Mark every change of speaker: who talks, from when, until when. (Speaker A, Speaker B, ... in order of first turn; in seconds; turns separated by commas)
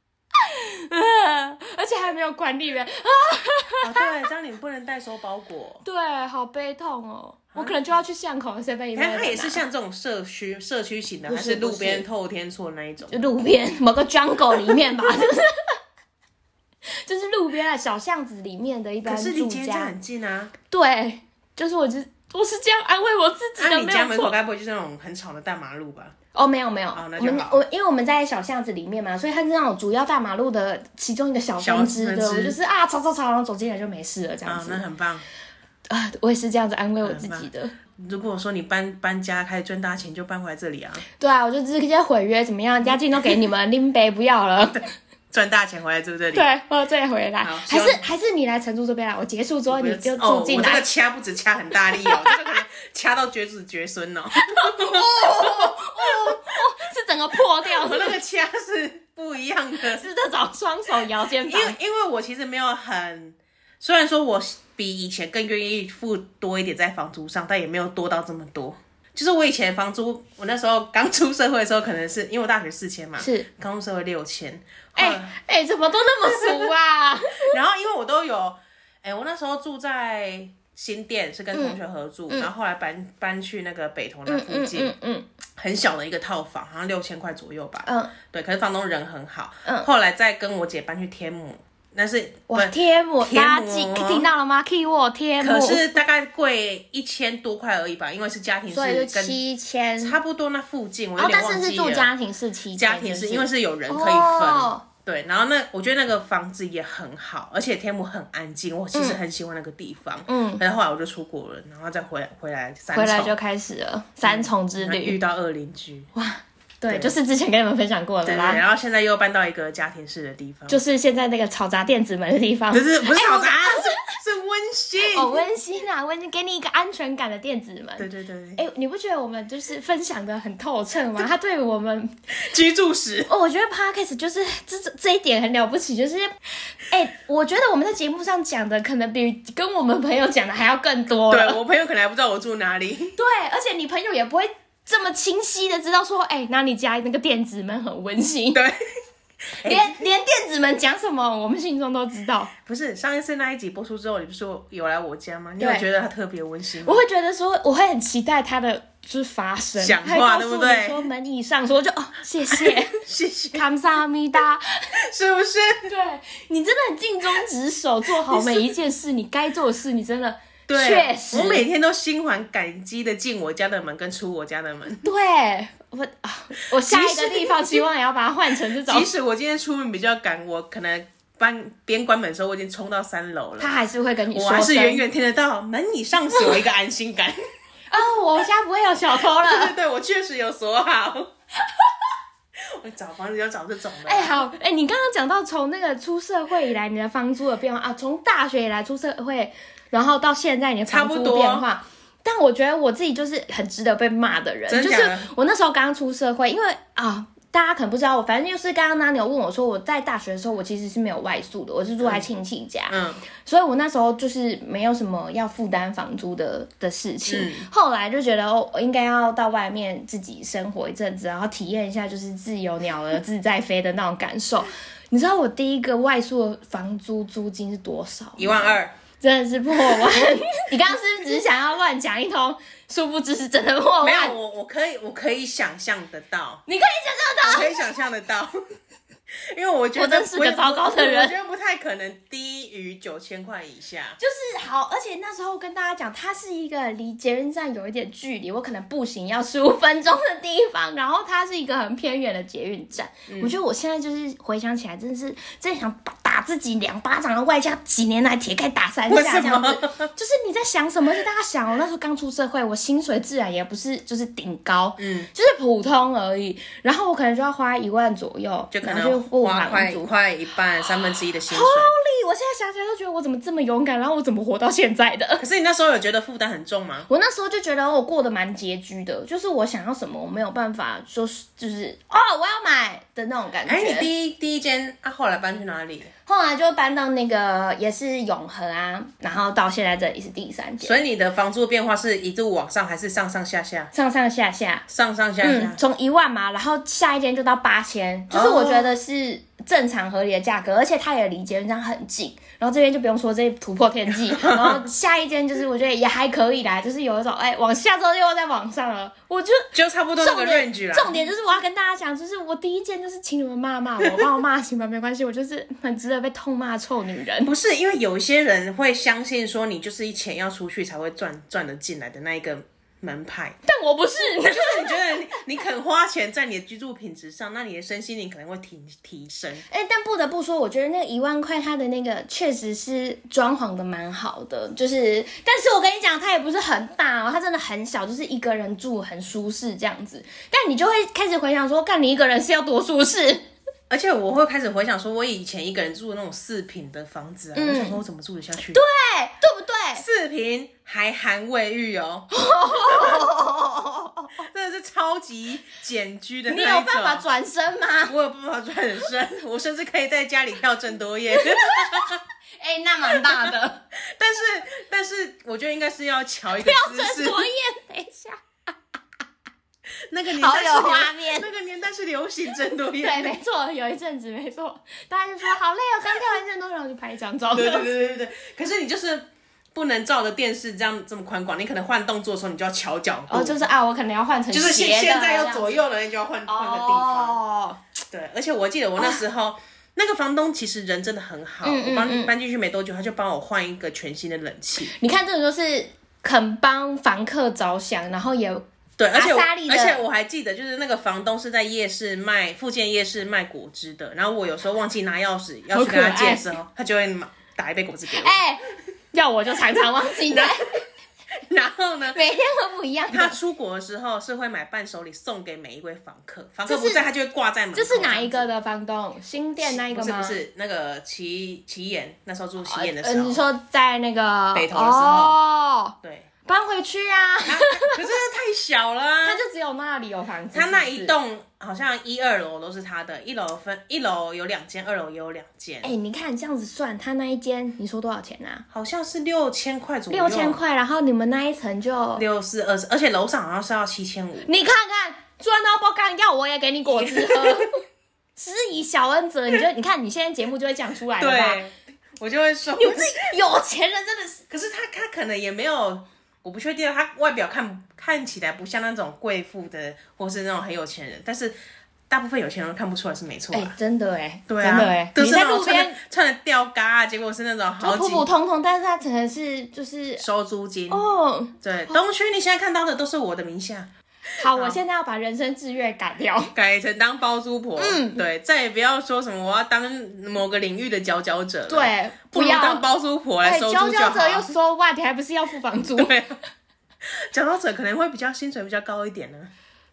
Speaker A: 0.3-4.1, Speaker B: 3.8-5.8, Speaker A: 5.8-9.6, Speaker B: 7.5-7.8, Speaker B: 8.9-13.2, Speaker A: 11.3-12.1, Speaker A: 13.1-15.8, Speaker A: 17.0-19.9, Speaker B: 19.1-20.5, Speaker A: 20.7-24.3, Speaker B: 23.6-26.1, Speaker A: 26.3-34.8, Speaker B: 26.9-27.6, Speaker B: 31.6-32.6, Speaker B: 34.5-35.2, Speaker A: 35.9-37.7, Speaker B: 37.0-41.0, Speaker A: 41.2-44.8, Speaker B: 44.8-46.5, Speaker A: 46.3-50.9, Speaker B: 47.4-48.0, Speaker B: 49.7-56.4, Speaker A: 52.0-52.5, Speaker A: 54.4-58.2, Speaker B: 57.6-60.1, Speaker A: 59.9-61.8, Speaker B: 61.4-75.3, Speaker A: 73.2-73.5, Speaker A: 75.0-77.6, Speaker B: 76.2-76.7, Speaker B: 77.5-84.9, Speaker A: 81.5-81.8, Speaker A: 84.3-85.3, Speaker B: 85.6-94.3, Speaker A: 87.8-88.1, Speaker A: 92.5-95.9, Speaker B: 95.4-99.4, Speaker A: 98.7-100.2, Speaker B: 100.0-102.1, Speaker A: 101.2-104.8, Speaker B: 102.7-113.3, Speaker A: 108.9-109.2, Speaker A: 110.3-110.6, Speaker A: 112.9-115.2, Speaker B: 114.2-116.1, Speaker A: 116.2-118.6, Speaker B: 118.2-120.8, Speaker A: 120.7-124.1, Speaker B: 122.7-125.4, Speaker A: 125.0-132.2, Speaker B: 128.0-128.6, Speaker B: 132.4-133.3, Speaker A: 133.3-136.3, Speaker A: 136.8-141.6, Speaker B: 141.3-143.2, Speaker A: 143.2-148.6, Speaker B: 148.5-148.8, Speaker B: 149.6-150.0, Speaker A: 149.6-152.5, Speaker B: 152.6-157.0, Speaker A: 155.6-155.8, Speaker A: 156.8-163.0, Speaker B: 159.8-161.0, Speaker B: 162.6-163.6, Speaker A: 163.5-164.9, Speaker B: 165.0-165.9, Speaker A: 165.9-171.7, Speaker B: 168.1-168.8, Speaker B: 170.7-175.1, Speaker A: 175.0-179.1, Speaker B: 176.8-177.6, Speaker B: 178.8-183.7, Speaker A: 183.6-185.0, Speaker B: 184.3-187.4, Speaker A: 187.9-189.7, Speaker B: 189.2-191.3, Speaker B: 192.6-194.4, Speaker A: 194.1-234.4, Speaker B: 200.9-201.7, Speaker B: 204.7-205.3, Speaker B: 212.9-213.2, Speaker B: 217.3-217.7, Speaker B: 228.4-228.9, Speaker B: 229.8-230.2, Speaker B: 234.0-236.6, Speaker A: 236.7-237.9, Speaker B: 237.4-238.6, Speaker B: 239.5-244.2, Speaker A: 240.0-241.3, Speaker A: 244.2-270.1, Speaker B: 253.3-253.6, Speaker B: 259.1-260.1, Speaker B: 265.0-265.3, Speaker B: 268.7-271.9, Speaker A: 271.5-275.4, Speaker B: 275.4-277.1, Speaker A: 277.1-284.1, Speaker B: 283.7-286.1, Speaker A: 286.3-291.0, Speaker B: 290.8-293.9, Speaker A: 293.9-294.9, Speaker B: 294.9-295.8, Speaker A: 295.4-317.5, Speaker B: 298.3-298.9, Speaker B: 304.3-304.8, Speaker B: 309.7-311.2, Speaker B: 317.4-323.6, Speaker A: 323.6-325.3, Speaker B: 324.5-329.6, Speaker A: 329.7-343.5, Speaker B: 343.9-348.8, Speaker A: 347.6-348.0, Speaker A: 348.7-350.0, Speaker B: 350.0-352.3, Speaker A: 352.3-354.3, Speaker B: 352.9-353.2, Speaker B: 354.5-357.2, Speaker A: 356.5-358.1, Speaker B: 358.1-362.2, Speaker A: 361.5-363.8, Speaker B: 363.1-367.4, Speaker A: 366.5-368.4, Speaker B: 370.1-373.3, Speaker A: 370.3-371.5, Speaker A: 373.0-377.9, Speaker B: 377.5-383.6, Speaker A: 383.3-385.8, Speaker B: 384.5-387.4, Speaker A: 386.5-387.8, Speaker B: 388.1-394.9, Speaker A: 391.6-392.3, Speaker A: 394.9-400.0, Speaker B: 399.0-408.4, Speaker A: 405.7-406.5, Speaker A: 408.1-410.8, Speaker B: 410.3-410.6, Speaker B: 411.5-412.2, Speaker A: 412.1-413.4, Speaker B: 413.1-418.5, Speaker A: 416.7-417.0, Speaker A: 417.7-420.4, Speaker B: 419.6-423.4, Speaker A: 422.6-425.9, Speaker B: 424.5-425.4, Speaker A: 426.5-428.0, Speaker B: 427.5-429.4, Speaker A: 429.2-431.1, Speaker B: 430.5-435.9, Speaker A: 435.8-438.6, Speaker B: 438.7-440.6, Speaker A: 440.1-442.2, Speaker B: 442.2-444.5, Speaker A: 444.4-447.8, Speaker B: 447.0-447.7, Speaker A: 448.4-451.6, Speaker B: 451.2-453.2, Speaker A: 452.8-454.4, Speaker B: 454.5-461.6, Speaker B: 462.1-463.7, Speaker A: 463.5-466.0, Speaker B: 464.5-468.3, Speaker A: 467.8-470.2, Speaker B: 470.2-471.1, Speaker A: 470.9-472.0, Speaker B: 471.6-473.9, Speaker A: 474.4-476.5, Speaker B: 474.5-474.8, Speaker B: 476.5-484.5, Speaker A: 477.8-478.2, Speaker A: 481.7-482.9, Speaker A: 483.4-486.2, Speaker B: 486.0-486.4, Speaker B: 487.1-489.5